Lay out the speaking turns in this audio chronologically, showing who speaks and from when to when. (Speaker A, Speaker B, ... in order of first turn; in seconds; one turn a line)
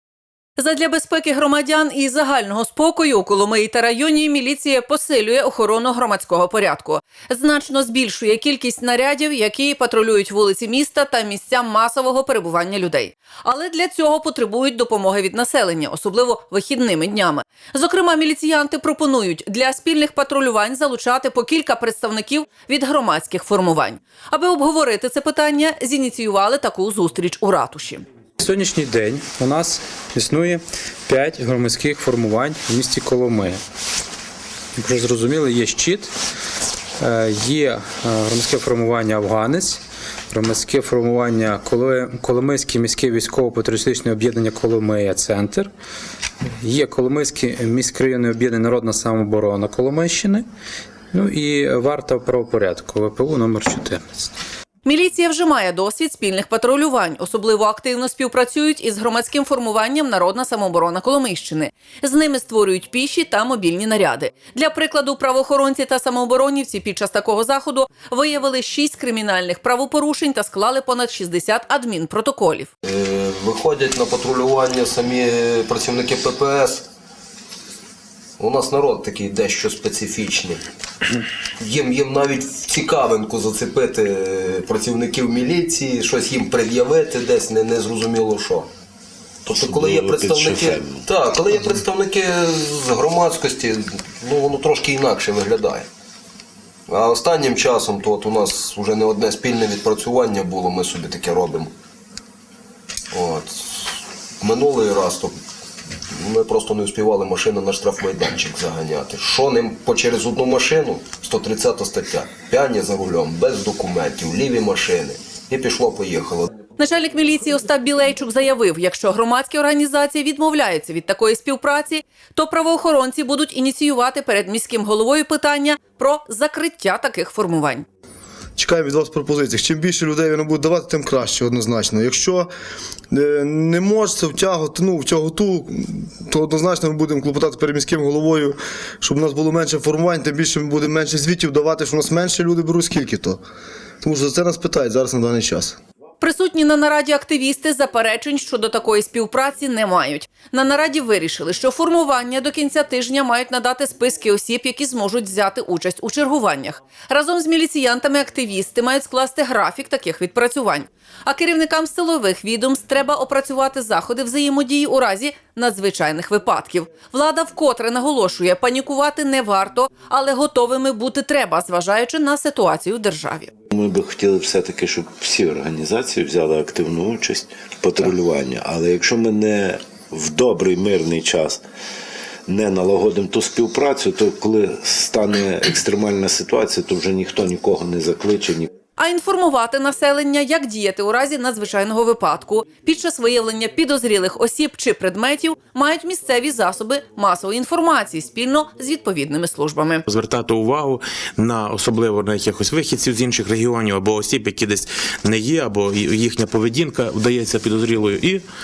Speaker A: 0.6-28.0
Speaker B: 28.4-33.6
Speaker B: 34.8-36.1
Speaker B: 37.0-45.7
Speaker B: 46.6-50.4
Speaker B: 51.1-54.3
Speaker A: 54.8-72.7
Speaker C: 72.8-76.9
Speaker C: 78.4-80.6
Speaker C: 81.6-88.7
Speaker D: 89.5-91.1
Speaker C: 89.5-95.8
Speaker C: 96.9-101.7
Speaker C: 103.1-105.4
Speaker C: 106.1-116.5
Speaker A: 116.8-127.8
Speaker E: 128.6-132.5
Speaker E: 133.1-143.4
Speaker E: 144.0-145.8
Speaker A: 146.2-173.5
Speaker D: 173.7-181.6
Speaker D: 182.5-188.7
Speaker A: 188.9-200.0
Speaker F: 200.1-208.4